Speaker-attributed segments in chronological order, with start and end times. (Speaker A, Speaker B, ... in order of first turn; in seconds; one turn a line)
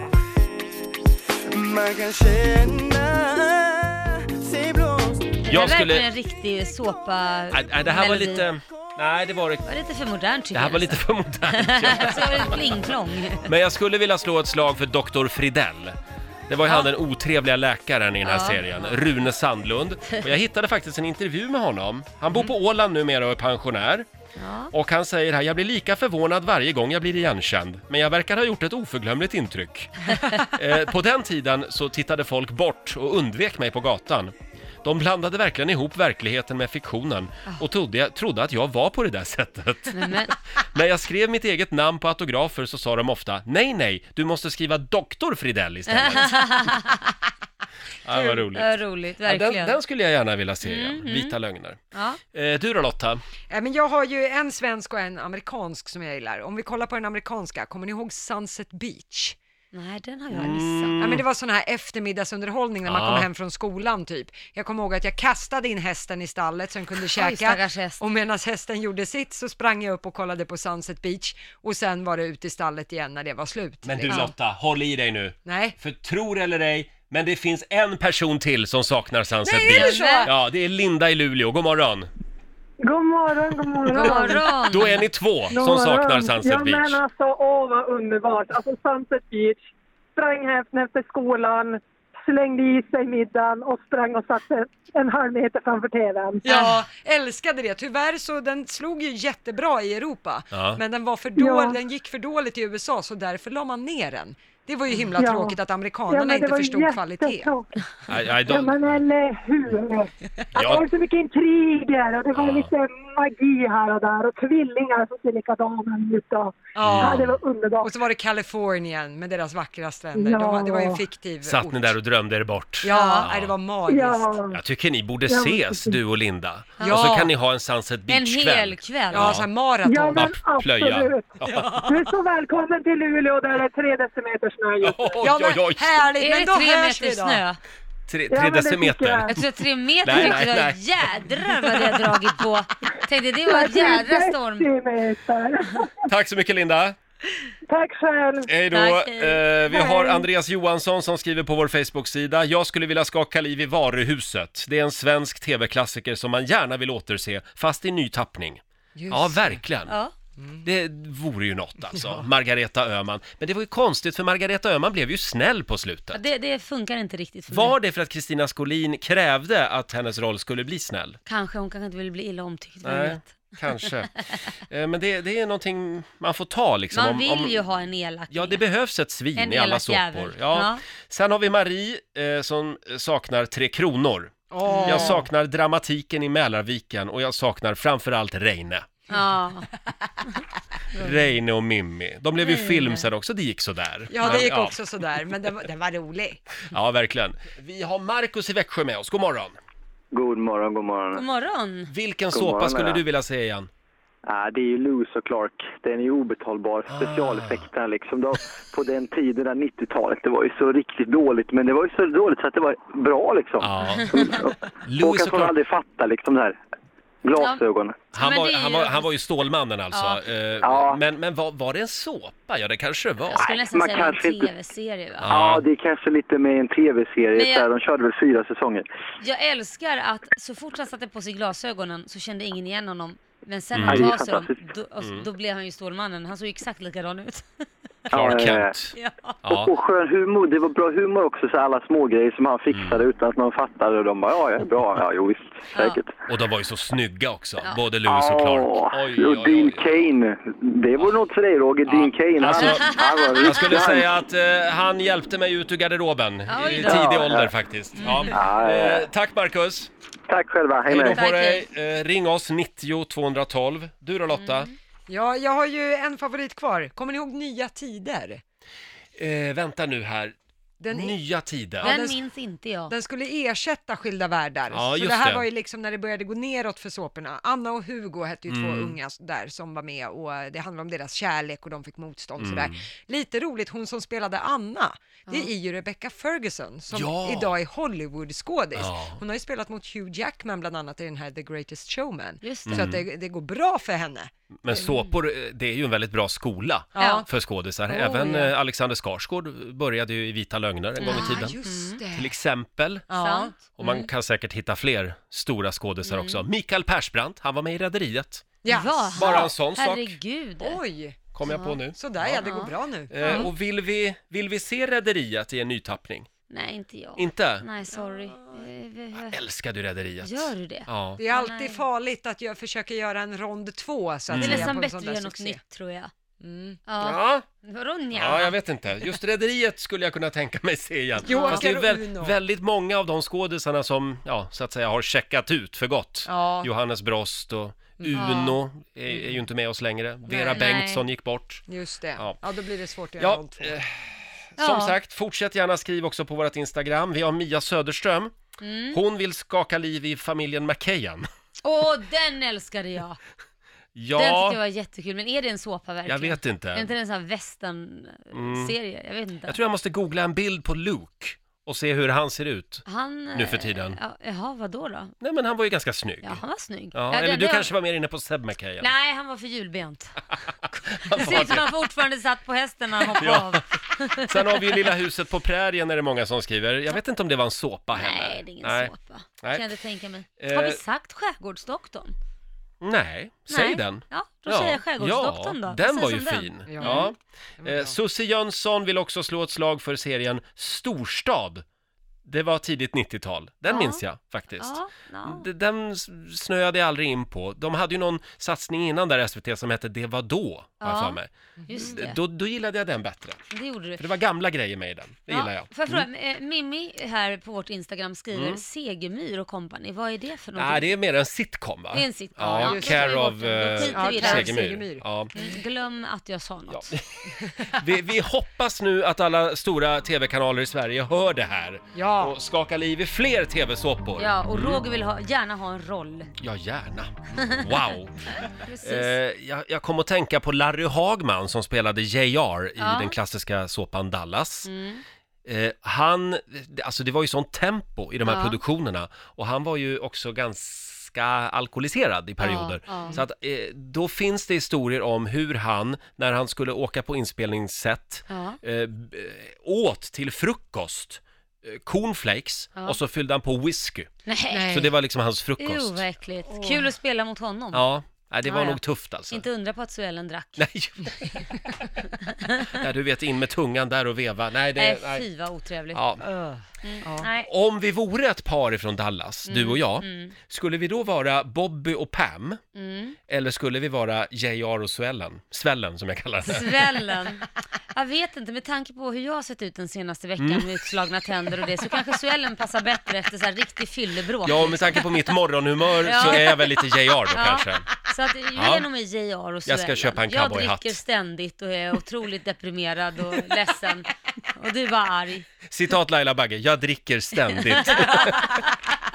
Speaker A: 1.5-5.5
Speaker B: 5.5-6.0
Speaker C: 5.5-8.5
Speaker B: 7.5-9.6
Speaker C: 9.6-13.5
Speaker B: 10.5-12.7
Speaker B: 13.4-16.0
Speaker B: 16.5-24.1
Speaker C: 18.2-18.9
Speaker C: 24.4-24.7
Speaker B: 24.7-46.7
Speaker C: 39.9-40.3
Speaker C: 45.9-47.0
Speaker B: 48.0-51.8
Speaker C: 48.5-49.8
Speaker C: 50.6-51.4
Speaker C: 51.9-52.2
Speaker B: 52.3-53.2
Speaker D: 53.5-59.4
Speaker C: 59.7-61.0
Speaker B: 60.3-61.2
Speaker D: 61.0-74.3
Speaker B: 62.8-63.3
Speaker C: 67.2-68.0
Speaker B: 73.8-82.1
Speaker D: 75.5-75.7
Speaker D: 79.4-80.3
Speaker C: 79.7-80.3
Speaker E: 82.8-84.4
Speaker D: 83.9-84.4
Speaker C: 84.0-85.0
Speaker B: 84.7-87.0
Speaker E: 85.5-96.4
Speaker D: 96.4-107.5
Speaker B: 100.5-100.8
Speaker E: 101.4-101.8
Speaker E: 105.2-107.7
Speaker B: 108.1-109.0
Speaker E: 108.4-118.0
Speaker B: 110.5-110.9
Speaker B: 112.3-112.7
Speaker D: 116.7-122.0
Speaker B: 116.8-117.4
Speaker E: 120.1-121.0
Speaker B: 121.4-123.5
Speaker D: 122.8-124.4
Speaker C: 122.9-123.3
Speaker E: 123.9-124.6
Speaker B: 124.5-129.5
Speaker E: 125.3-126.0
Speaker D: 126.8-127.3
Speaker C: 128.1-129.3
Speaker D: 129.1-130.3
Speaker E: 129.8-135.2
Speaker B: 130.2-131.7
Speaker D: 131.4-132.1
Speaker B: 134.8-136.0
Speaker D: 135.2-137.4
Speaker C: 136.2-137.6
Speaker B: 138.1-139.4
Speaker E: 138.3-139.3
Speaker C: 139.3-144.7
Speaker B: 140.0-140.8
Speaker E: 143.5-145.9
Speaker B: 146.1-146.9
Speaker E: 147.7-148.5
Speaker B: 148.4-159.9
Speaker C: 148.7-149.5
Speaker D: 149.7-150.2
Speaker D: 158.9-159.6
Speaker C: 159.9-160.1
Speaker B: 160.6-166.2
Speaker D: 162.0-162.2
Speaker C: 166.1-167.8
Speaker B: 167.5-171.2
Speaker C: 171.3-173.9
Speaker B: 172.8-174.1
Speaker B: 174.7-177.6
Speaker C: 176.9-178.6
Speaker B: 178.3-188.9
Speaker C: 179.4-180.8
Speaker D: 184.5-185.3
Speaker C: 184.7-185.2
Speaker C: 189.1-189.7
Speaker B: 191.0-194.8
Speaker C: 192.4-193.1
Speaker D: 194.1-196.4
Speaker B: 196.7-199.6
Speaker F: 200.1-201.2
Speaker C: 201.1-201.9
Speaker B: 201.9-203.7
Speaker F: 202.3-203.0
Speaker F: 204.3-216.6
Speaker B: 206.9-207.7
Speaker B: 213.6-215.5
Speaker F: 217.2-218.0
Speaker B: 218.1-223.4
Speaker C: 218.1-219.1
Speaker C: 219.9-220.2
Speaker F: 220.6-221.0
Speaker F: 223.3-224.5
Speaker C: 223.4-225.3
Speaker B: 225.2-225.6
Speaker F: 225.2-228.8
Speaker C: 227.3-227.7
Speaker C: 229.2-237.6
Speaker B: 233.7-234.1
Speaker F: 233.8-234.7
Speaker B: 235.0-235.3
Speaker F: 238.1-238.7
Speaker B: 238.1-239.7
Speaker C: 238.9-239.3
Speaker F: 239.5-246.1
Speaker B: 242.7-243.0
Speaker C: 245.7-246.0
Speaker B: 246.3-250.1
Speaker F: 248.0-254.1
Speaker B: 251.9-259.9
Speaker C: 252.5-253.7
Speaker C: 256.5-257.3
Speaker F: 256.7-257.5
Speaker C: 257.9-258.4
Speaker F: 258.3-259.1
Speaker F: 260.3-261.2
Speaker B: 260.9-264.7
Speaker C: 261.1-261.6
Speaker C: 264.3-264.8
Speaker D: 265.1-268.4
Speaker B: 269.2-270.3
Speaker D: 270.8-271.2
Speaker B: 270.9-271.9
Speaker D: 271.8-272.2
Speaker C: 271.8-272.9
Speaker D: 272.9-294.9
Speaker B: 274.7-275.4
Speaker B: 278.5-278.9
Speaker B: 282.4-282.8
Speaker B: 286.9-287.6
Speaker B: 288.7-289.2
Speaker C: 292.4-292.9
Speaker B: 292.6-293.0
Speaker B: 294.6-301.6
Speaker C: 294.7-295.0
Speaker D: 296.9-297.3
Speaker C: 297.0-297.3
Speaker C: 297.9-298.5
Speaker C: 301.0-302.0
Speaker D: 301.0-302.3
Speaker B: 302.1-303.1
Speaker D: 303.1-303.5
Speaker C: 303.1-304.1
Speaker B: 303.8-308.6
Speaker C: 306.1-306.4
Speaker D: 308.6-309.5
Speaker C: 308.6-310.8
Speaker B: 309.1-310.1
Speaker D: 310.6-311.3
Speaker B: 311.3-312.4
Speaker C: 311.4-311.8
Speaker D: 311.9-313.5
Speaker C: 312.4-313.5
Speaker B: 313.1-316.3
Speaker C: 316.5-319.4
Speaker B: 317.2-317.6
Speaker D: 318.0-318.6
Speaker B: 319.1-321.2
Speaker C: 320.2-321.8
Speaker D: 321.2-325.6
Speaker B: 324.3-324.7
Speaker C: 324.4-326.1
Speaker D: 326.4-326.8
Speaker C: 326.9-328.6
Speaker B: 327.0-327.4
Speaker B: 328.1-341.6
Speaker D: 331.2-332.4
Speaker C: 331.3-331.6
Speaker D: 336.3-336.7
Speaker D: 338.0-338.4
Speaker C: 338.1-338.6
Speaker D: 340.3-340.7
Speaker C: 340.5-341.0
Speaker D: 341.7-343.7
Speaker B: 343.2-348.3
Speaker C: 344.6-344.9
Speaker C: 348.6-349.0
Speaker B: 348.9-351.3
Speaker C: 351.6-353.2
Speaker B: 353.9-354.6
Speaker C: 354.1-359.6
Speaker B: 356.1-356.9
Speaker B: 358.3-358.7
Speaker B: 359.4-364.0
Speaker C: 362.9-365.1
Speaker B: 365.2-366.4
Speaker C: 366.2-367.7
Speaker B: 366.9-368.9
Speaker C: 368.8-370.2
Speaker B: 370.9-371.7
Speaker C: 371.1-374.9
Speaker B: 373.1-378.9
Speaker C: 377.9-382.1
Speaker B: 380.4-380.8
Speaker B: 382.8-391.6
Speaker C: 383.5-387.1
Speaker D: 386.7-387.9
Speaker B: 392.3-403.4
Speaker C: 393.7-394.0
Speaker C: 394.6-395.4
Speaker C: 400.8-402.2
Speaker D: 401.6-402.0
Speaker C: 403.5-404.0
Speaker B: 404.0-406.1
Speaker C: 405.3-410.9
Speaker B: 408.3-408.6
Speaker B: 410.6-415.3
Speaker C: 411.9-414.6
Speaker D: 412.5-413.2
Speaker D: 413.9-415.6
Speaker C: 415.3-416.9
Speaker B: 416.7-424.8
Speaker D: 421.9-422.4
Speaker C: 424.2-426.3
Speaker B: 426.4-434.7
Speaker C: 427.4-429.1
Speaker C: 432.8-433.1
Speaker C: 434.6-435.0
Speaker B: 435.4-454.1
Speaker C: 438.3-438.6
Speaker C: 442.4-443.2
Speaker C: 448.3-448.6
Speaker C: 454.3-454.9
Speaker D: 454.5-454.9
Speaker B: 454.7-456.0
Speaker C: 455.6-457.9
Speaker D: 456.5-456.9
Speaker B: 457.7-459.4
Speaker C: 458.4-458.8
Speaker C: 459.3-460.6
Speaker B: 460.6-461.9
Speaker C: 462.3-462.7
Speaker B: 462.7-465.2
Speaker C: 464.8-466.0
Speaker B: 465.9-466.3
Speaker D: 466.2-467.3
Speaker C: 466.8-467.5
Speaker B: 467.4-472.6
Speaker C: 469.5-470.4
Speaker C: 472.8-473.2
Speaker B: 473.3-476.8
Speaker C: 476.4-485.3
Speaker B: 480.4-480.6
Speaker B: 484.4-487.9
Speaker C: 486.0-495.5
Speaker B: 488.6-488.8
Speaker B: 489.6-491.0
Speaker B: 495.7-498.6
Speaker C: 497.8-498.4